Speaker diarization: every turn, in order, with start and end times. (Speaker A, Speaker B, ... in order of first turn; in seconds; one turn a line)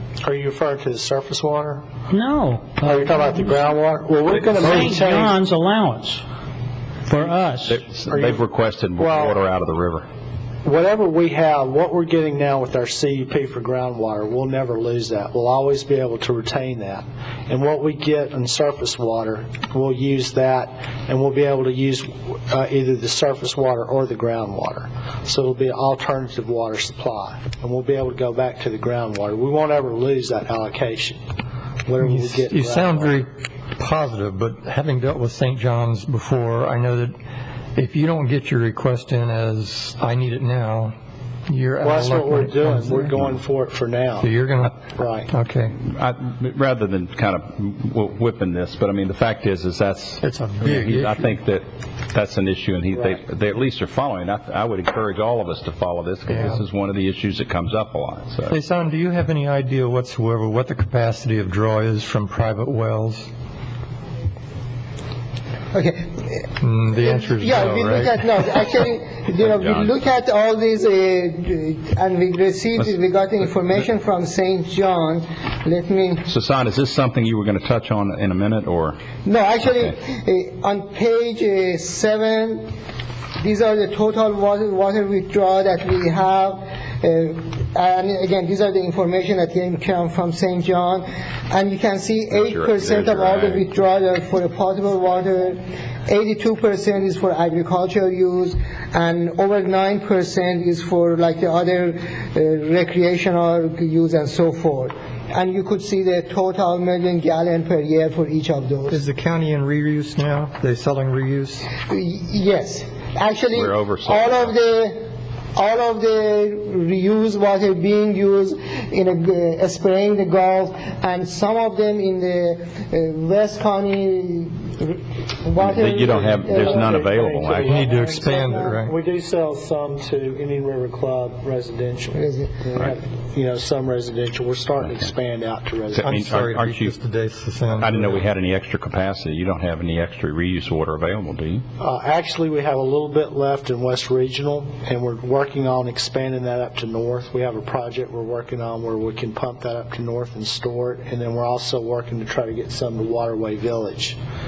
Speaker A: 0.2-1.8
Speaker B: 2.1-3.5
Speaker A: 2.8-5.3
Speaker B: 4.5-6.2
Speaker B: 7.0-7.8
Speaker C: 7.7-10.1
Speaker A: 8.1-8.5
Speaker A: 9.0-9.4
Speaker A: 10.6-31.2
Speaker A: 31.9-33.2
Speaker D: 32.0-37.1
Speaker D: 37.8-40.9
Speaker D: 41.5-43.1
Speaker A: 41.8-45.3
Speaker D: 44.2-44.8
Speaker D: 45.3-45.8
Speaker C: 45.8-58.5
Speaker D: 50.2-51.3
Speaker A: 52.9-53.2
Speaker D: 56.3-56.6
Speaker D: 58.5-63.3
Speaker E: 65.7-66.4
Speaker D: 66.6-68.2
Speaker E: 67.0-76.3
Speaker C: 69.5-70.0
Speaker C: 76.3-79.0
Speaker E: 79.2-82.7
Speaker E: 83.4-109.0
Speaker C: 92.3-93.7
Speaker D: 108.9-111.7
Speaker E: 111.9-115.0
Speaker C: 113.5-114.5
Speaker E: 115.6-127.0
Speaker C: 125.6-127.7
Speaker A: 126.3-136.2
Speaker D: 127.7-128.9
Speaker E: 127.7-128.7
Speaker E: 132.2-132.6
Speaker C: 136.0-136.9
Speaker D: 136.0-138.2
Speaker C: 137.8-141.6
Speaker A: 141.8-154.2